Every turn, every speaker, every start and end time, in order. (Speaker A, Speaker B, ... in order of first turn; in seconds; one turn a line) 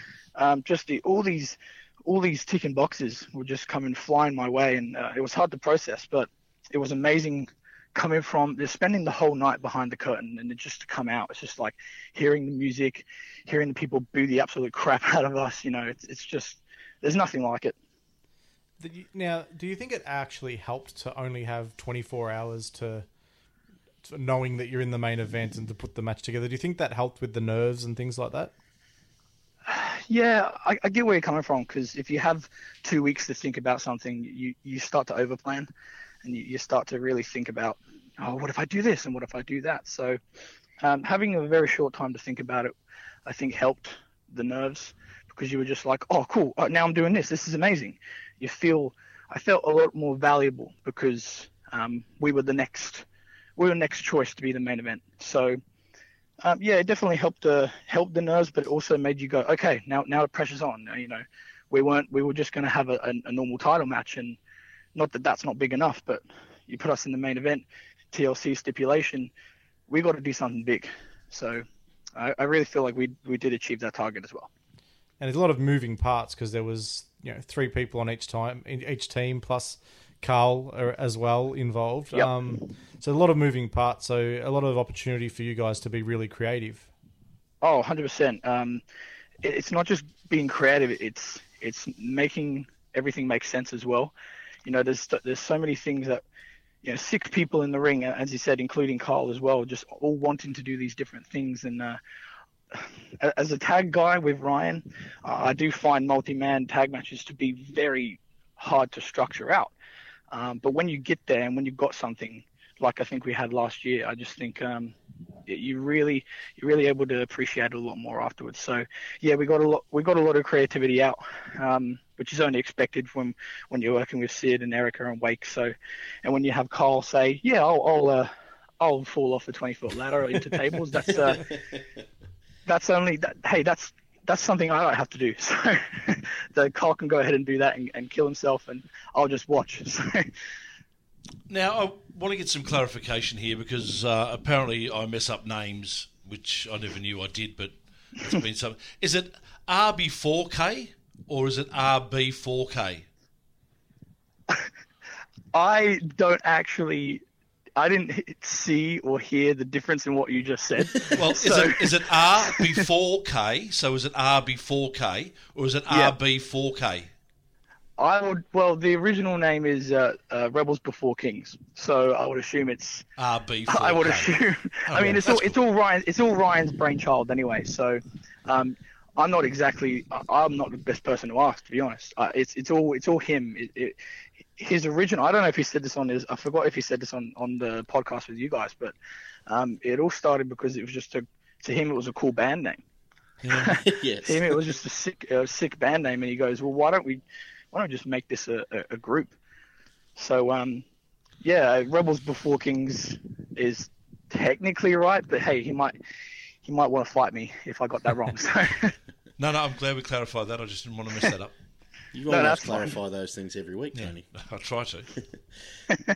Speaker A: 0.3-17.7
Speaker B: 18.8-23.1
Speaker B: 24.0-28.5
Speaker A: 29.7-35.7
Speaker A: 36.2-40.2
Speaker A: 40.8-42.7
Speaker A: 43.2-53.0
Speaker A: 53.6-55.6
Speaker A: 56.4-64.4
Speaker A: 64.9-69.3
Speaker A: 69.9-71.6
Speaker A: 72.2-74.5
Speaker B: 75.2-86.9
Speaker A: 87.6-88.8
Speaker A: 89.4-94.1
Speaker A: 94.6-96.2
Speaker A: 96.8-102.0
Speaker A: 102.7-109.7
Speaker A: 110.3-114.9
Speaker A: 115.5-125.7
Speaker A: 126.2-131.4
Speaker A: 132.7-140.3
Speaker C: 141.5-153.0
Speaker A: 155.5-157.2
Speaker A: 157.8-162.7
Speaker C: 161.1-167.1
Speaker A: 165.9-166.2
Speaker A: 168.0-173.0
Speaker C: 173.2-175.5
Speaker A: 173.7-184.0
Speaker A: 184.6-188.9
Speaker A: 189.5-192.8
Speaker C: 193.4-193.7
Speaker A: 193.5-197.2
Speaker D: 193.6-194.5
Speaker A: 197.7-199.3
Speaker A: 200.2-200.8
Speaker A: 201.4-205.9
Speaker A: 206.6-208.9
Speaker C: 209.4-211.5
Speaker D: 212.1-214.2
Speaker A: 212.3-213.0
Speaker C: 213.9-215.1